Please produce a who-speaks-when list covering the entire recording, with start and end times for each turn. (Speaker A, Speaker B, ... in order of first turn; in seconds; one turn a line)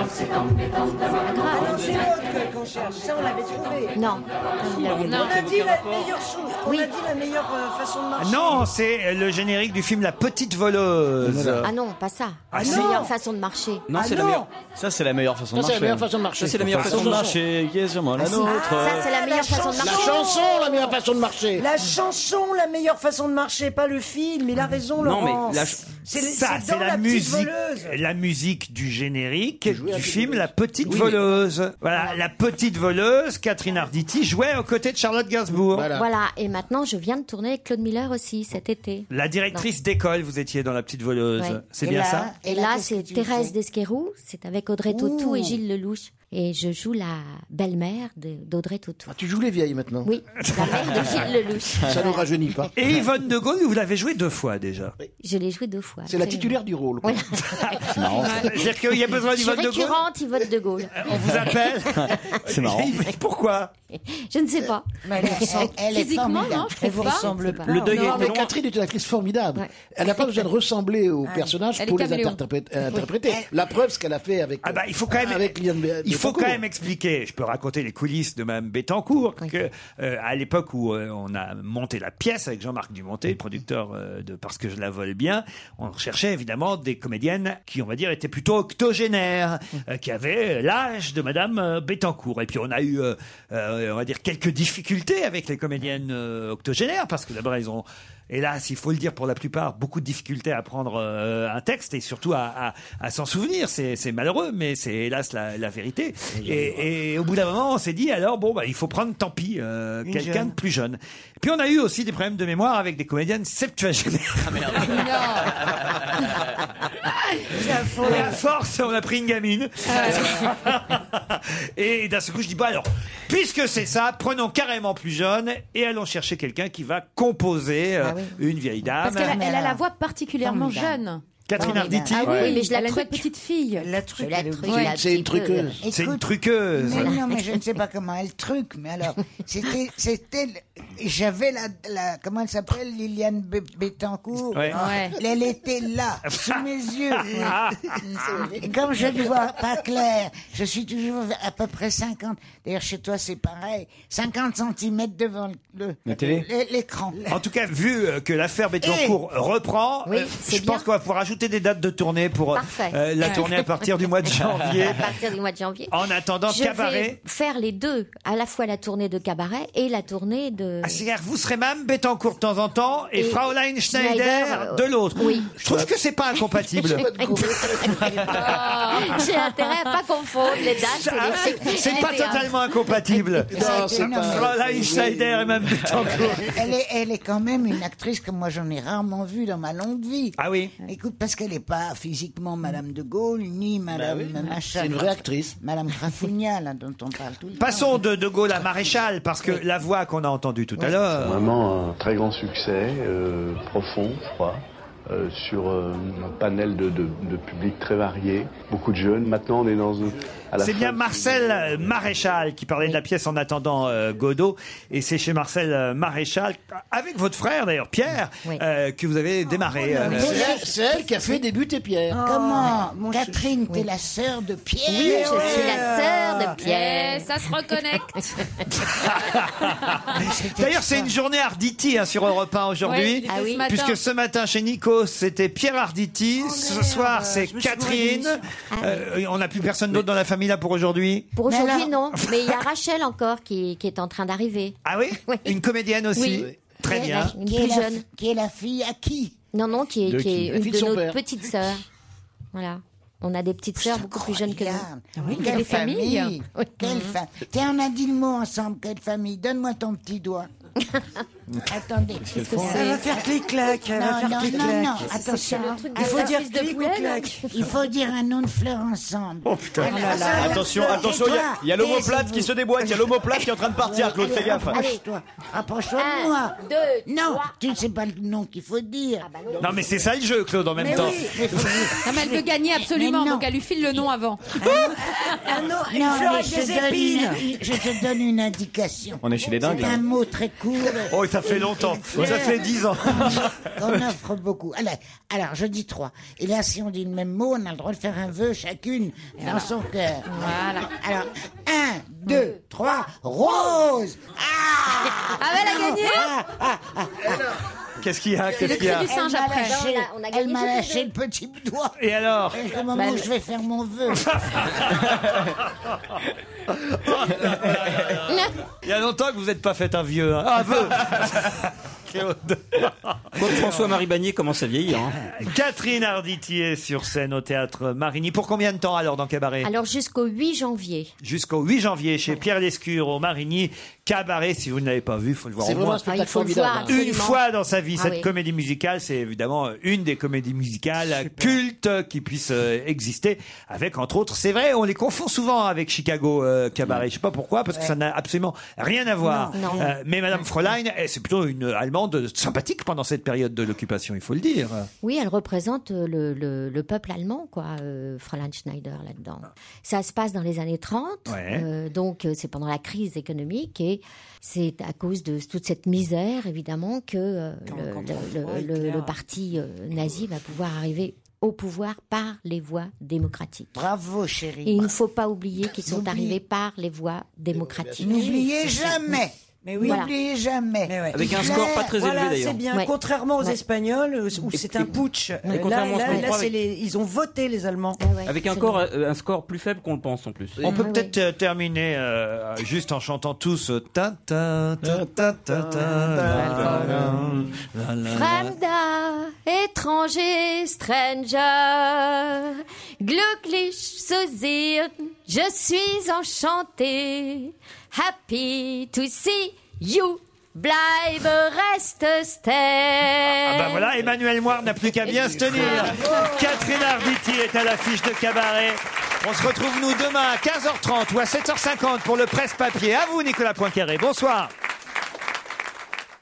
Speaker A: 1.1-2.0
Speaker B: 1.5-3.9
Speaker A: 3.9-5.2
Speaker C: 4.6-6.1
Speaker D: 4.9-5.3
Speaker B: 5.1-8.7
Speaker A: 6.6-6.9
Speaker E: 8.2-11.7
Speaker F: 11.2-11.7
Speaker A: 11.6-13.9
Speaker E: 12.5-13.1
Speaker F: 12.6-13.1
Speaker C: 13.9-14.4
Speaker B: 13.9-14.5
Speaker G: 14.7-16.1
Speaker F: 15.5-17.4
Speaker C: 16.4-17.3
Speaker G: 16.8-19.1
Speaker F: 18.1-18.6
Speaker A: 18.2-20.3
Speaker B: 19.2-20.9
Speaker F: 19.4-21.7
Speaker B: 21.6-27.9
Speaker C: 24.9-25.9
Speaker E: 26.2-35.9
Speaker F: 29.6-31.2
Speaker A: 30.8-31.1
Speaker F: 35.7-36.1
Speaker A: 35.9-39.7
Speaker E: 39.1-42.3
Speaker H: 41.8-43.5
Speaker A: 42.4-49.2
Speaker F: 45.0-45.5
Speaker F: 49.1-50.1
Speaker A: 50.0-52.3
Speaker E: 50.4-51.3
Speaker F: 51.8-52.7
Speaker E: 52.8-55.0
Speaker A: 55.2-57.4
Speaker F: 56.0-57.3
Speaker E: 57.4-60.0
Speaker G: 57.9-58.4
Speaker D: 58.1-58.5
Speaker A: 59.2-61.3
Speaker E: 60.9-63.7
Speaker G: 61.9-62.9
Speaker A: 62.1-62.4
Speaker A: 63.9-65.7
Speaker H: 65.0-67.4
Speaker D: 65.8-68.3
Speaker A: 66.8-68.3
Speaker B: 66.9-67.7
Speaker C: 67.7-68.5
Speaker F: 67.9-76.6
Speaker A: 69.5-70.4
Speaker D: 71.7-72.4
Speaker E: 74.6-115.5
Speaker F: 106.4-106.8
Speaker B: 110.0-110.5
Speaker D: 114.8-115.6
Speaker B: 117.5-118.4
Speaker E: 117.5-129.4
Speaker D: 119.8-120.5
Speaker A: 128.0-128.4
Speaker D: 129.0-133.9
Speaker H: 129.1-129.8
Speaker A: 130.4-131.0
Speaker E: 131.5-132.1
Speaker H: 131.6-132.3
Speaker G: 132.2-132.6
Speaker A: 132.2-133.3
Speaker B: 133.8-134.8
Speaker A: 134.2-135.8
Speaker D: 134.6-135.0
Speaker F: 134.8-135.8
Speaker H: 135.8-136.2
Speaker E: 135.9-137.1
Speaker H: 136.7-147.6
Speaker A: 136.8-137.6
Speaker E: 144.5-144.8
Speaker D: 144.7-145.2
Speaker E: 146.3-146.6
Speaker E: 147.2-148.0
Speaker H: 148.3-157.2
Speaker G: 156.0-156.4
Speaker E: 157.3-165.1
Speaker H: 158.8-159.2
Speaker A: 160.1-160.9
Speaker A: 162.5-166.0
Speaker E: 165.9-167.2
Speaker A: 166.5-171.0
Speaker E: 170.8-177.1
Speaker A: 173.2-175.5
Speaker F: 175.6-175.9
Speaker F: 176.7-178.5
Speaker A: 176.9-182.6
Speaker E: 177.9-179.2
Speaker D: 178.4-179.0
Speaker E: 180.6-186.5
Speaker H: 183.2-184.5
Speaker F: 183.5-186.3
Speaker A: 183.5-184.0
Speaker H: 186.5-198.0
Speaker E: 190.4-190.7
Speaker F: 193.9-195.6
Speaker E: 197.6-201.5
Speaker I: 201.0-212.0
Speaker E: 210.6-220.4
Speaker H: 219.7-221.4
Speaker F: 220.0-222.2
Speaker B: 222.1-223.6
Speaker H: 222.2-225.8
Speaker A: 224.9-228.5
Speaker B: 225.0-226.6
Speaker D: 226.6-228.3
Speaker E: 228.8-229.8
Speaker H: 230.1-231.1
Speaker E: 230.6-241.3
Speaker D: 232.8-234.0
Speaker A: 233.3-233.6
Speaker B: 236.4-238.4
Speaker A: 238.7-239.1
Speaker A: 241.3-245.6
Speaker H: 241.5-241.9
Speaker E: 244.8-247.3
Speaker A: 246.1-248.0
Speaker F: 246.2-246.6
Speaker H: 247.1-249.4
Speaker A: 249.5-251.8
Speaker G: 250.1-250.5
Speaker F: 250.3-251.2
Speaker A: 252.5-254.9
Speaker H: 253.8-260.5
Speaker D: 255.2-257.1
Speaker H: 261.6-263.3
Speaker G: 262.3-262.6
Speaker D: 262.4-263.0
Speaker B: 262.6-265.1
Speaker H: 263.9-266.4
Speaker A: 264.6-267.5
Speaker B: 265.9-267.4
Speaker H: 267.5-272.5
Speaker E: 269.5-269.9
Speaker B: 269.8-271.0
Speaker A: 269.9-270.5
Speaker G: 270.3-274.8
Speaker H: 273.8-279.3
Speaker A: 274.7-275.0
Speaker A: 275.9-277.5
Speaker A: 279.2-279.7
Speaker E: 279.6-281.2
Speaker B: 280.8-281.4
Speaker H: 280.9-283.5
Speaker D: 282.0-284.7
Speaker H: 284.5-285.1
Speaker B: 285.3-287.4
Speaker H: 285.9-291.5
Speaker G: 289.2-290.0
Speaker E: 291.1-293.5
Speaker H: 292.0-307.5
Speaker D: 300.3-300.9
Speaker D: 305.4-306.3
Speaker E: 308.0-309.1
Speaker D: 308.6-309.8
Speaker H: 309.0-311.9
Speaker A: 309.1-311.1
Speaker E: 312.0-312.6
Speaker H: 312.5-314.2
Speaker E: 314.2-315.4
Speaker E: 316.8-318.3
Speaker A: 318.2-318.5
Speaker E: 318.8-323.9
Speaker C: 323.4-325.2
Speaker E: 325.4-329.7
Speaker A: 329.6-331.1
Speaker E: 331.2-336.0
Speaker F: 335.6-336.9
Speaker A: 336.0-337.4
Speaker E: 336.9-354.9
Speaker A: 337.9-338.3
Speaker H: 349.2-349.9
Speaker A: 349.5-349.9
Speaker A: 355.0-373.7
Speaker E: 361.3-361.6
Speaker B: 367.7-369.2
Speaker H: 373.7-374.9
Speaker A: 374.6-378.5
Speaker H: 375.7-376.4
Speaker F: 377.5-378.3
Speaker H: 378.0-381.9
Speaker B: 379.6-380.1
Speaker A: 379.8-380.1
Speaker B: 380.8-388.0
Speaker C: 381.1-382.6
Speaker A: 382.7-383.6
Speaker C: 384.5-384.9
Speaker C: 385.4-386.5
Speaker A: 385.5-386.3
Speaker A: 388.0-388.8
Speaker C: 388.2-390.6
Speaker E: 390.6-398.6
Speaker A: 390.6-391.1
Speaker F: 395.8-397.1
Speaker G: 396.1-397.3
Speaker D: 396.4-397.0
Speaker A: 398.0-413.9
Speaker E: 413.4-424.5